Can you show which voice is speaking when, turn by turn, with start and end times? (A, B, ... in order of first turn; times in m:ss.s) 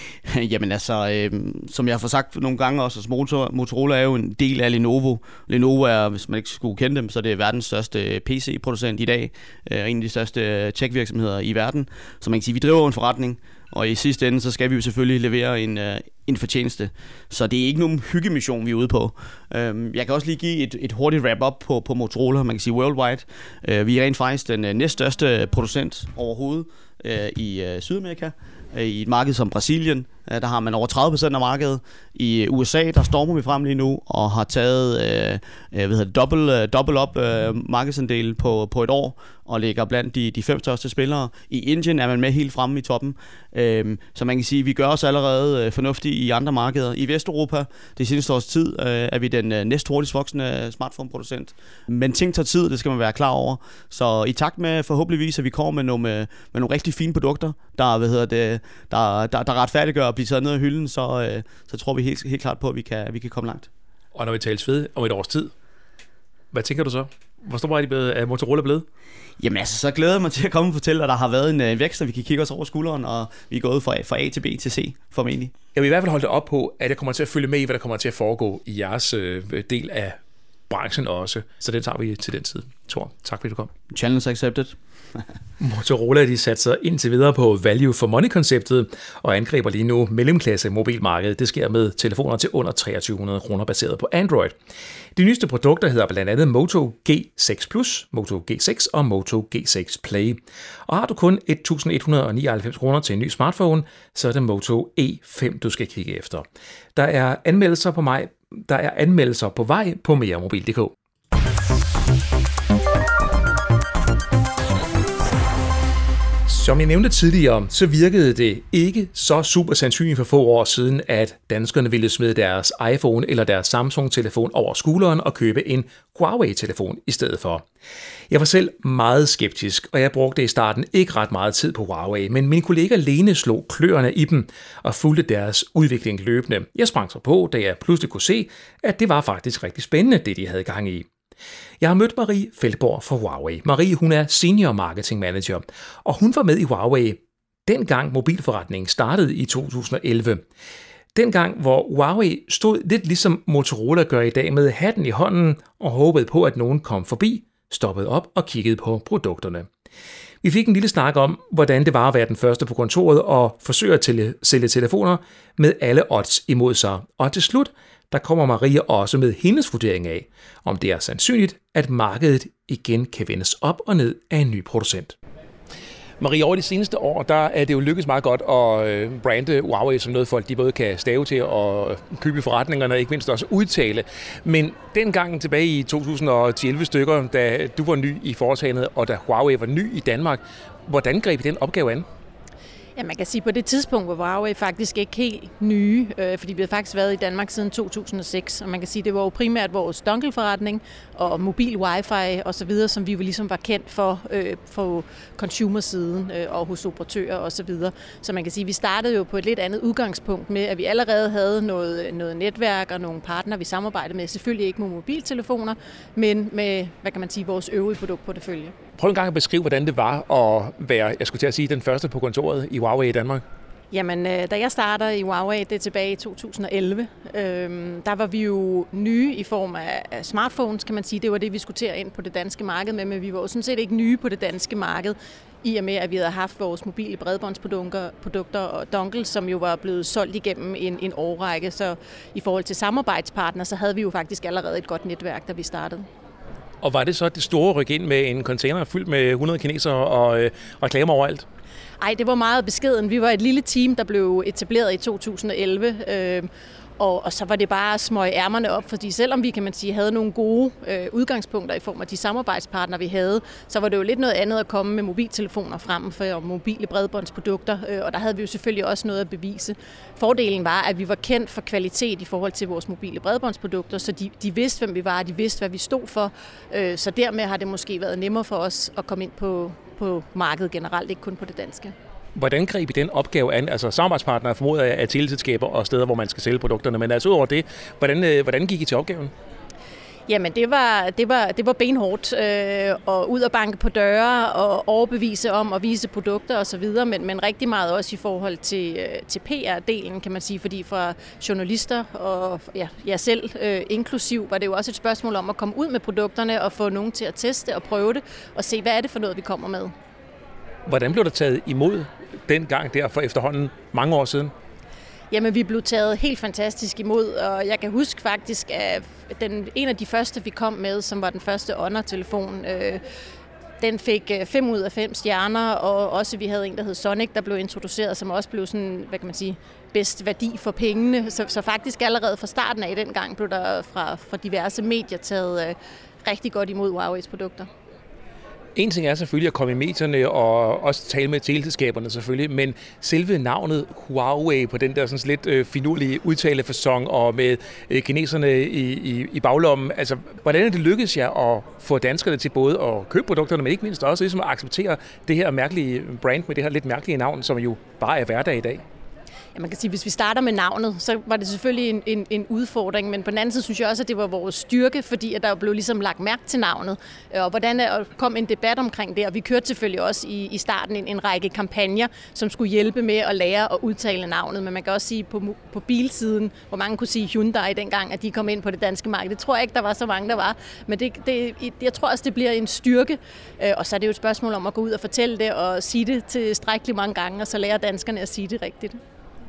0:00.2-1:03.7 A
1:04.2-1:05.5 B
1:06.5-1:08.8 B
1:09.4-1:15.5 A
1:15.8-1:20.2 B
1:20.7-1:23.7 B
1:23.9-1:25.2 A
1:25.6-1:34.5 B
1:35.2-1:50.9 B
1:56.5-2:07.6 B
2:08.3-2:21.1 B
2:21.8-2:30.4 B
2:31.2-2:39.7 B
2:40.4-2:55.2 B
2:56.2-3:12.1 B
3:13.0-3:38.7 C
3:39.0-3:43.4 B
3:43.9-4:06.1 C
4:06.8-4:11.5 B
4:12.0-4:16.5 C
4:17.0-4:41.9 C
4:42.4-4:49.3 B
4:50.3-5:09.9 C
5:10.9-5:14.5 B
5:15.3-5:23.0 C
5:23.8-5:37.7 C
5:38.8-5:58.8 B
5:59.6-6:29.0 C